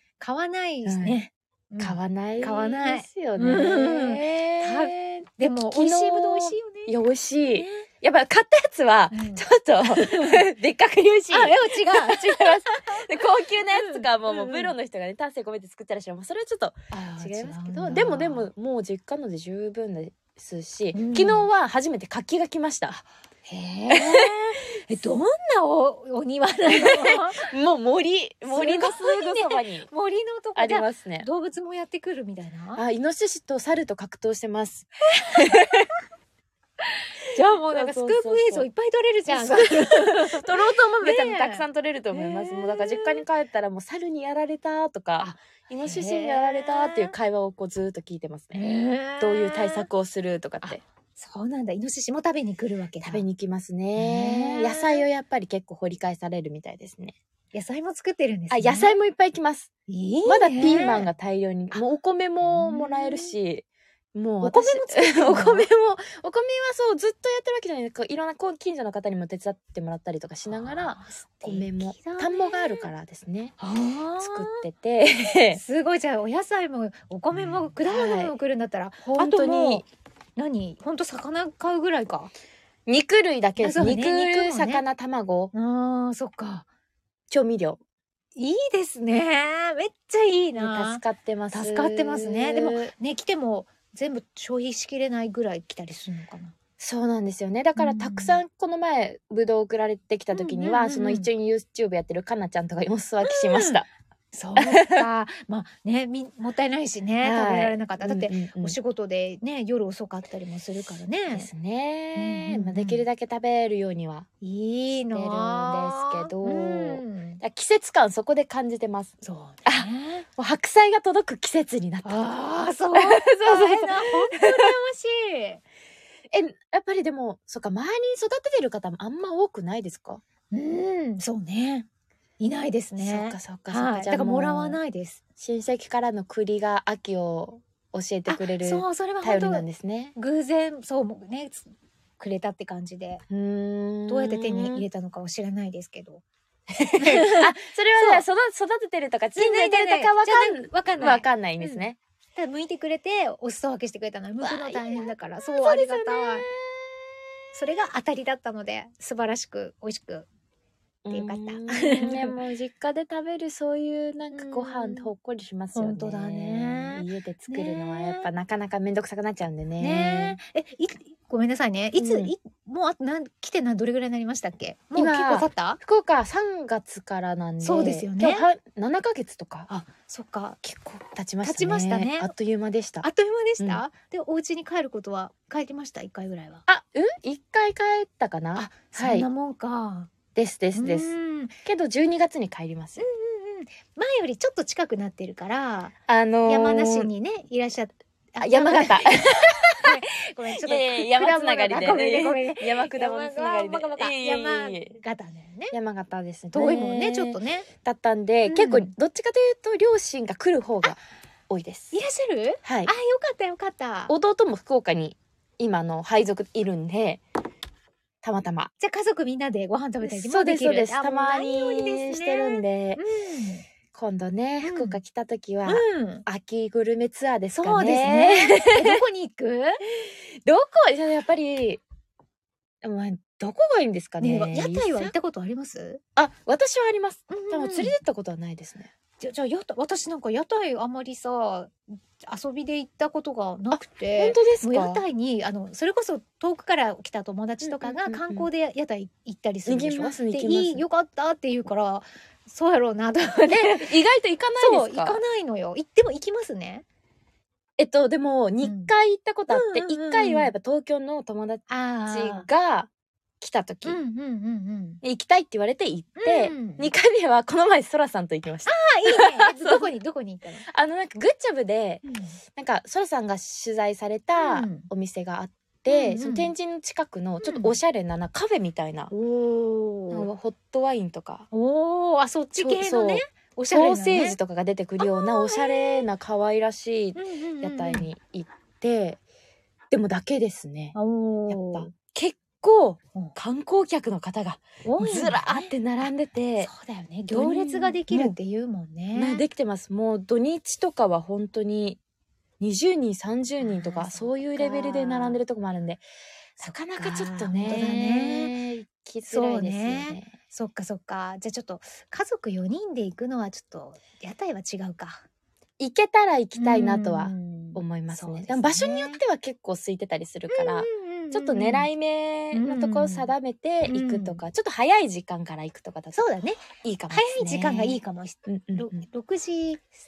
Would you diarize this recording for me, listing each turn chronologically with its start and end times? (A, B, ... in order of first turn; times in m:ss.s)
0:00.2-0:07.9 A
0:00.8-0:01.2 B
0:01.8-0:23.0 B
0:09.1-0:10.4 A
0:11.3-0:13.0 A
0:13.7-0:14.7 A
0:16.9-0:18.5 A
0:20.9-0:21.5 A
0:23.5-0:27.5 A
0:23.9-0:24.3 B
0:26.7-0:29.9 B
0:28.5-0:32.8 A
0:30.6-0:31.3 B
0:32.8-0:35.9 B
0:35.3-0:35.6 A
0:37.3-0:43.2 A
0:37.7-0:38.6 B
0:39.3-0:48.6 B
0:45.2-0:47.1 A
0:48.5-0:49.9 A
0:49.2-0:50.8 B
0:50.6-0:53.2 A
0:53.0-0:57.1 B
0:54.0-0:55.0 A
0:57.5-0:58.9 A
0:58.5-0:59.7 B
0:59.9-1:01.1 A
1:00.2-1:13.6 B
1:02.4-1:03.4 A
1:04.4-1:05.7 A
1:10.4-1:12.9 A
1:13.6-1:14.6 A
1:14.2-1:15.6 B
1:15.5-1:22.3 A
1:17.3-1:18.3 B
1:19.0-1:19.8 B
1:22.9-1:25.5 B
1:23.6-1:24.8 A
1:25.5-1:26.6 A
1:27.3-1:27.8 B
1:28.4-1:31.0 A
1:30.5-1:32.9 B
1:31.5-1:36.5 A
1:36.8-1:43.9 B
1:37.8-1:38.4 A
1:40.3-1:41.3 A
1:43.2-1:51.5 A
1:44.6-1:45.0 B
1:47.2-1:48.7 B
1:51.3-1:54.3 B
1:52.1-1:53.0 A
1:54.4-1:57.4 A
1:55.1-2:02.3 B
1:59.2-2:00.2 A
2:02.0-2:05.6 A
2:02.9-2:04.7 B
2:06.3-2:10.2 B
2:10.5-2:11.9 A
2:12.4-2:15.2 A
2:13.0-2:14.8 B
2:15.4-2:20.2 B
2:18.3-2:19.6 A
2:20.2-2:23.2 A
2:23.3-2:24.8 B
2:24.1-2:26.2 A
2:26.8-2:32.0 B
2:27.0-2:28.2 A
2:29.3-2:36.5 A
2:34.4-2:36.8 B
2:37.5-2:40.3 A
2:41.0-2:50.4 B
2:41.1-2:42.4 A
2:44.3-2:45.1 A
2:45.7-2:48.3 A
2:49.8-2:55.8 A
2:52.0-2:52.3 B
2:55.0-2:59.7 B
2:57.6-2:58.5 A
2:59.7-3:00.6 A
3:00.6-3:03.1 B
3:01.4-3:02.3 A
3:03.0-3:06.6 A
3:06.7-3:09.3 B
3:08.5-3:10.1 A
3:10.3-3:11.1 B
3:10.7-3:11.5 A
3:11.6-3:13.0 B
3:13.0-3:15.9 A
3:16.1-3:17.1 B
3:16.4-3:25.7 A
3:18.4-3:20.0 B
3:20.6-3:25.0 B
3:25.7-3:31.9 B
3:26.5-3:27.7 A
3:28.5-3:28.9 A
3:31.9-3:34.1 A
3:32.6-3:32.9 B
3:34.1-3:37.2 B
3:38.2-3:38.7 B
3:38.8-3:43.6 A
3:40.0-3:43.0 B
3:43.9-3:49.0 B
3:44.6-3:45.0 A
3:45.6-3:46.2 A
3:47.5-3:49.8 A
3:49.9-3:51.8 B
3:52.8-3:55.1 B
3:54.2-3:56.0 A
3:56.2-3:58.9 B
3:57.3-3:57.9 A
3:59.2-4:14.0 A
4:03.7-4:05.0 B
4:07.6-4:08.5 B
4:09.6-4:10.8 B
4:13.5-4:15.2 B
4:14.6-4:16.8 A
4:17.8-4:24.0 B
4:18.6-4:18.9 A
4:19.5-4:20.5 A
4:21.7-4:22.5 A
4:23.8-4:25.0 A
4:25.0-4:29.9 B
4:26.2-4:26.9 A
4:28.6-4:30.6 A
4:30.7-4:32.0 B
4:32.0-4:32.4 A
4:32.6-4:39.1 B
4:34.4-4:34.9 A
4:35.9-4:36.5 A
4:37.4-4:37.8 A
4:39.1-4:40.3 A
4:40.1-4:41.5 B
4:41.5-4:44.4 A
4:42.5-4:49.2 B
4:45.0-4:46.0 A
4:47.2-4:48.1 A
4:49.9-4:51.0 B
4:50.9-4:51.9 A
4:51.5-4:56.7 B
4:54.8-4:55.7 A
4:56.6-4:59.4 A
4:57.3-4:58.3 B
4:59.1-5:02.0 B
5:02.6-5:06.0 B
5:03.6-5:05.4 A
5:06.6-5:10.3 B
5:06.6-5:08.6 A
5:09.3-5:15.2 A
5:15.8-5:26.2 B
5:16.6-5:19.2 A
5:20.5-5:21.9 A
5:22.5-5:23.3 A
5:23.8-5:24.4 A
5:26.1-5:29.9 A
5:26.8-5:29.0 B